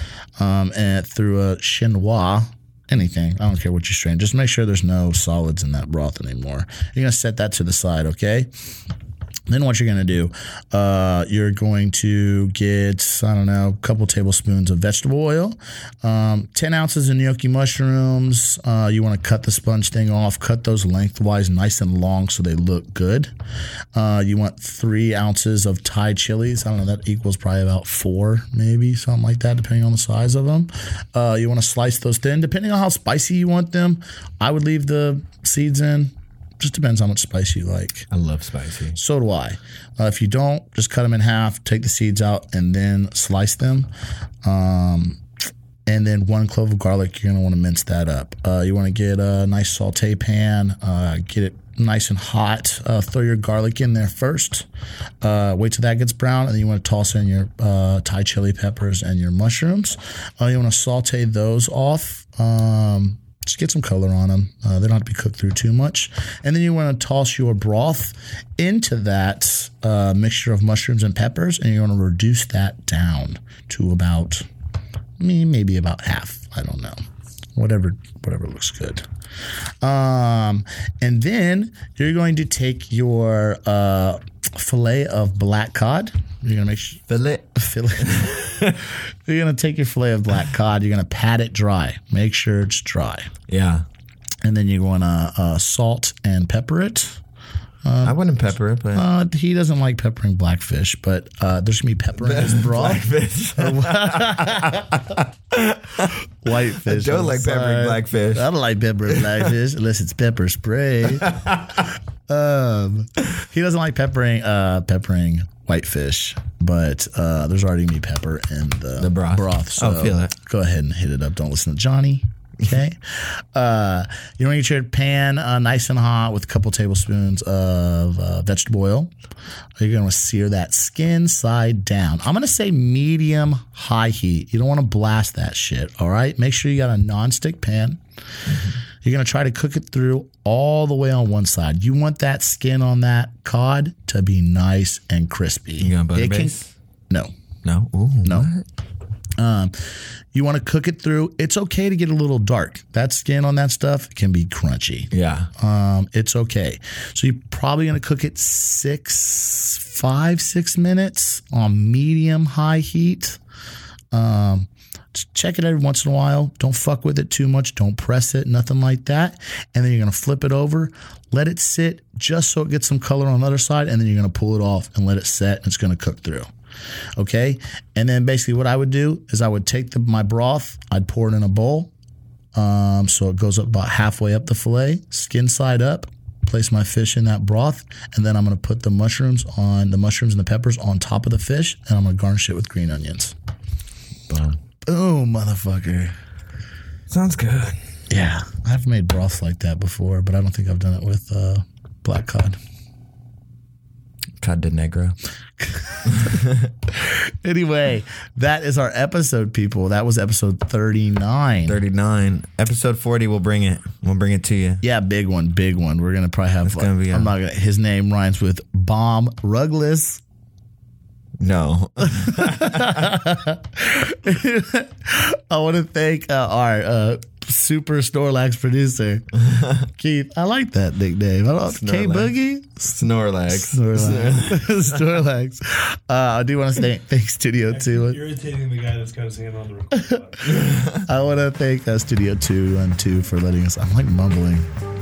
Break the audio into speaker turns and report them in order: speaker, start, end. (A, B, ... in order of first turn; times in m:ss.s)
0:00.4-0:08.5 A
0:09.5-0:23.3 A
0:23.9-0:38.1 A
0:38.1-0:39.0 B
0:38.9-0:43.9 A
0:44.4-0:45.2 A
0:45.9-0:54.6 A
0:55.2-1:14.4 A
1:15.2-1:17.0 A
1:17.6-1:19.0 A
1:19.8-1:33.3 A
1:27.1-1:28.8 B
1:33.5-1:33.8 B
1:34.4-1:37.2 A
1:37.8-1:38.2 A
1:38.0-1:39.0 B
1:38.9-1:45.0 A
1:42.2-1:48.5 B
1:46.4-1:51.4 A
1:49.1-1:49.5 B
1:51.1-1:51.9 B
1:52.3-2:09.1 A
1:59.0-2:00.3 B
2:09.8-2:18.0 A
2:18.5-2:18.7 B
2:19.0-2:26.6 A
2:25.8-2:26.7 B
2:27.6-2:28.6 B
2:28.2-2:28.5 A
2:29.4-2:43.4 A
2:35.1-2:35.5 B
2:44.1-2:56.5 A
2:57.2-3:01.9 A
3:02.5-3:13.3 A
3:14.3-3:14.6 B
3:14.8-3:16.1 A
3:17.1-3:17.8 B
3:18.1-3:22.6 A
3:24.4-3:25.2 B
3:25.6-3:26.3 A
3:26.1-3:26.7 B
3:26.9-3:31.8 A
3:31.7-3:34.8 B
3:34.8-3:40.2 A
3:36.6-3:37.3 B
3:41.4-3:43.1 B
3:42.0-3:58.2 A
3:51.6-3:52.3 B
3:52.8-3:55.0 B
3:57.7-4:00.4 C
4:00.4-4:01.1 B
4:00.9-4:04.7 A